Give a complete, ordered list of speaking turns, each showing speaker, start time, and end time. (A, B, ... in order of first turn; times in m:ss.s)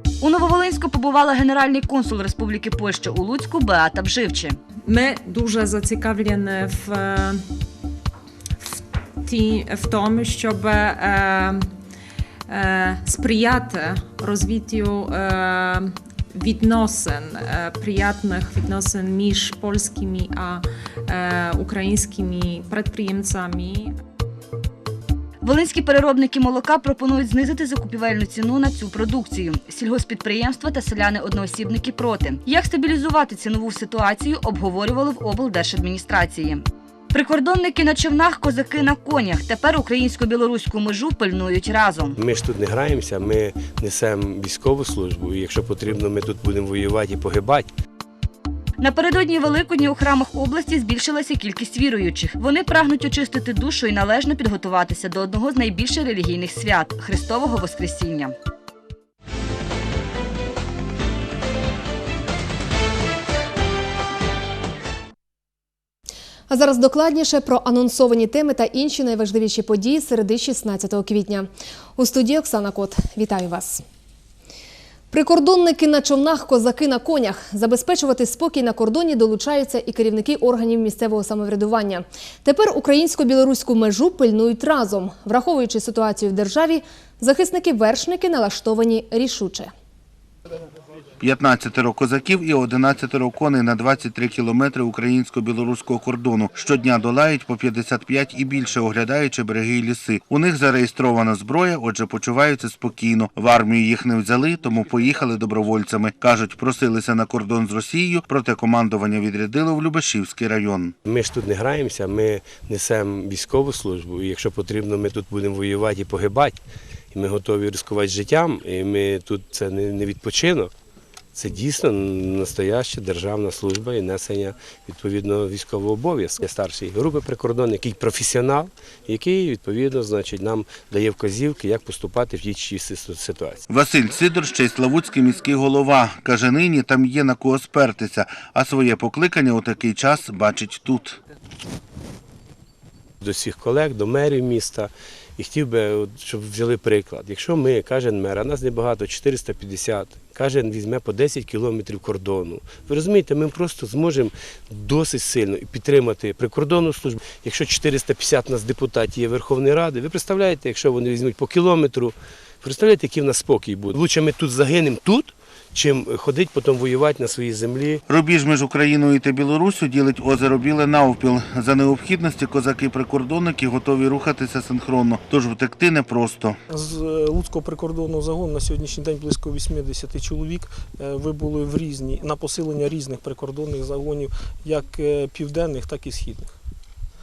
0:00.2-0:04.6 A
0:04.9-0:07.4 B
0:08.6-0:11.7 B
0:12.5-0:23.9 B
0:25.4-0:42.2 A
0:42.2-0:47.7 C
0:48.8-0:58.4 A
1:06.5-1:13.8 D
1:15.1-1:29.7 D
1:31.2-1:51.0 E
1:51.0-1:56.6 C
1:57.1-2:00.7 C
2:01.4-2:13.6 C
2:13.7-2:21.2 E
2:23.2-2:48.0 C
2:48.1-2:56.6 E
2:56.7-3:06.6 F